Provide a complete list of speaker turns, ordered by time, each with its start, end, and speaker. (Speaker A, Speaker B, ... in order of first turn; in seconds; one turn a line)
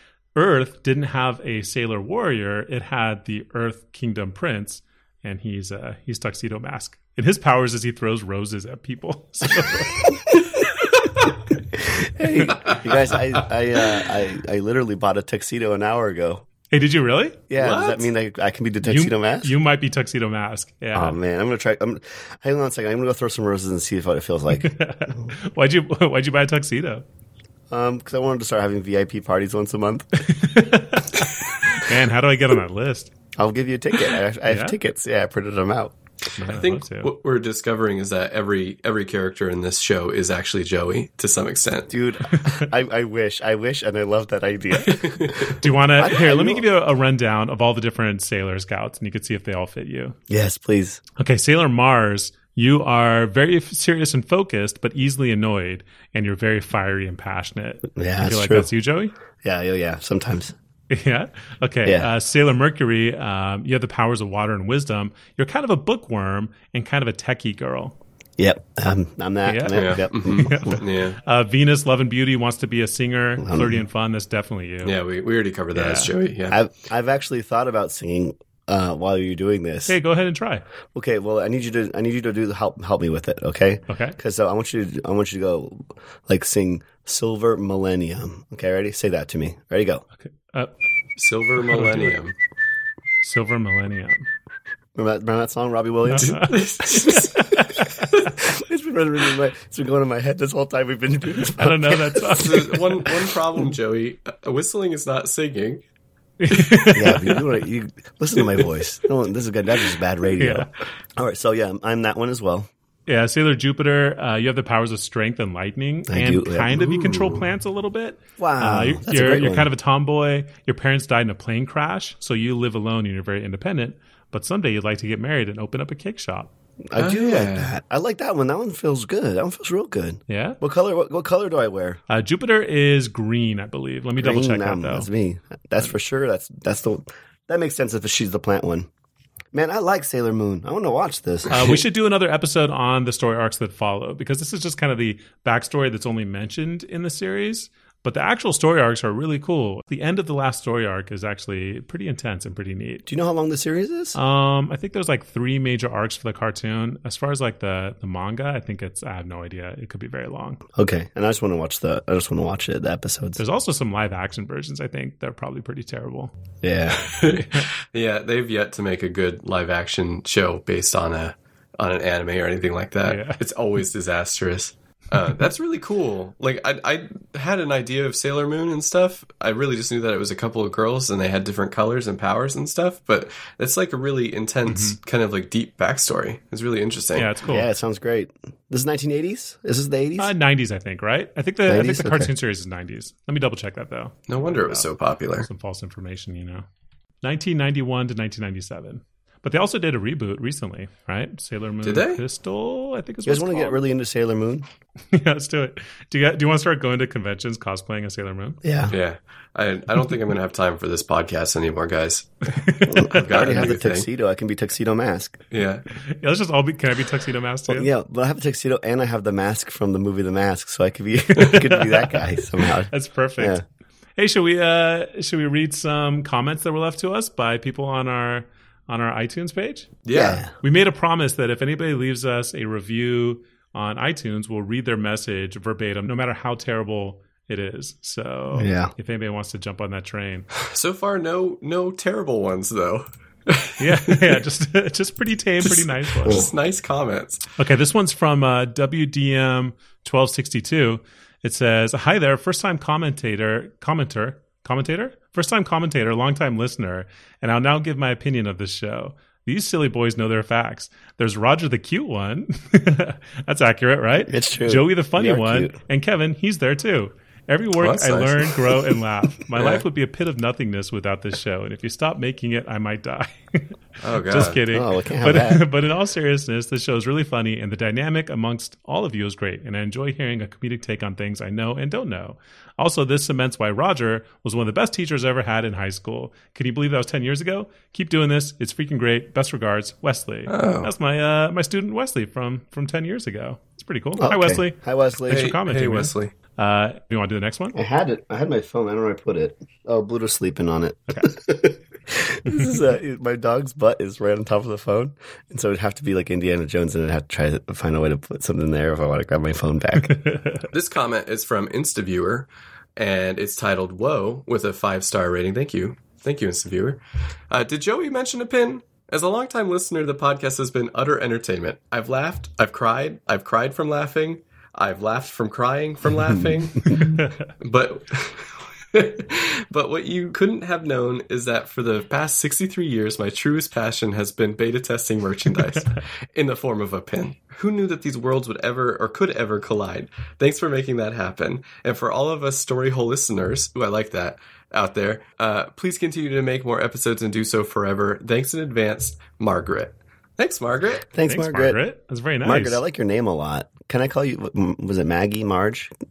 Speaker A: 0.3-10.2
Speaker B: 11.7-16.4
Speaker A: 16.7-17.4
Speaker B: 17.5-19.5
Speaker C: 17.6-18.1
Speaker A: 18.8-21.2
Speaker B: 20.9-25.3
Speaker A: 24.5-27.0
Speaker B: 27.7-30.3
Speaker A: 30.2-33.1
Speaker B: 33.4-35.9
Speaker A: 34.5-34.8
Speaker A: 36.4-37.1
Speaker C: 36.4-41.9
Speaker B: 41.9-46.6
Speaker A: 42.3-42.6
Speaker C: 44.8-45.6
Speaker A: 45.6-50.1
Speaker B: 50.3-51.0
Speaker A: 51.2-59.1
Speaker B: 58.0-58.7
Speaker B: 59.4-60.5
Speaker A: 60.9-68.0
Speaker B: 68.4-70.8
Speaker A: 69.5-75.0
Speaker C: 69.7-71.2
Speaker B: 73.4-73.8
Speaker C: 74.8-76.6
Speaker A: 75.7-76.1
Speaker B: 76.5-79.9
Speaker A: 79.9-80.6
Speaker B: 80.9-90.0
Speaker A: 83.9-84.2
Speaker A: 90.3-90.7
Speaker C: 91.2-92.3
Speaker A: 91.7-92.1
Speaker A: 93.2-94.3
Speaker B: 95.0-96.6
Speaker A: 96.1-98.3
Speaker C: 96.2-98.2
Speaker B: 98.3-102.5
Speaker A: 101.5-103.1
Speaker C: 102.2-105.8
Speaker A: 106.4-107.4
Speaker C: 106.5-107.2
Speaker B: 106.9-112.7
Speaker C: 108.4-108.6
Speaker A: 110.4-110.7
Speaker A: 113.1-126.5
Speaker B: 116.1-116.9
Speaker C: 116.8-117.4
Speaker B: 118.4-119.7
Speaker B: 126.9-132.0
Speaker C: 126.9-127.7
Speaker A: 130.3-130.6
Speaker A: 132.1-135.1
Speaker B: 134.2-138.9
Speaker B: 139.5-141.8
Speaker A: 141.5-153.1
Speaker B: 153.1-154.2
Speaker A: 154.1-160.6
Speaker B: 160.8-163.4
Speaker A: 163.4-166.3
Speaker B: 166.6-167.1
Speaker C: 166.9-187.3
Speaker A: 173.0-173.4
Speaker A: 184.7-185.0
Speaker A: 187.2-187.7
Speaker B: 187.4-190.3
Speaker A: 190.2-194.9
Speaker B: 191.7-192.3
Speaker C: 194.3-195.5
Speaker A: 195.4-196.7
Speaker A: 197.2-203.8
Speaker C: 201.8-202.2
Speaker B: 203.2-204.7
Speaker A: 205.1-208.6
Speaker B: 208.6-208.9
Speaker C: 208.9-214.1
Speaker A: 212.7-213.2
Speaker B: 212.9-215.4
Speaker C: 215.5-215.8
Speaker A: 215.9-217.9
Speaker B: 217.7-223.6
Speaker A: 221.3-223.6
Speaker A: 224.2-230.0
Speaker C: 230.1-230.4
Speaker B: 230.1-230.5
Speaker A: 230.6-240.5
Speaker B: 238.5-238.9
Speaker C: 240.6-244.3
Speaker A: 243.8-246.5
Speaker C: 246.2-247.4
Speaker A: 247.6-297.8
Speaker B: 264.2-265.8
Speaker C: 267.8-268.9
Speaker C: 269.5-269.8
Speaker C: 274.0-274.6
Speaker B: 274.7-275.6
Speaker C: 290.5-290.9
Speaker B: 294.2-295.5
Speaker C: 295.3-296.3
Speaker B: 297.7-310.2
Speaker A: 310.1-310.6
Speaker C: 310.7-351.0
Speaker A: 326.9-327.3
Speaker B: 351.1-351.8
Speaker A: 351.2-352.8
Speaker B: 352.4-355.9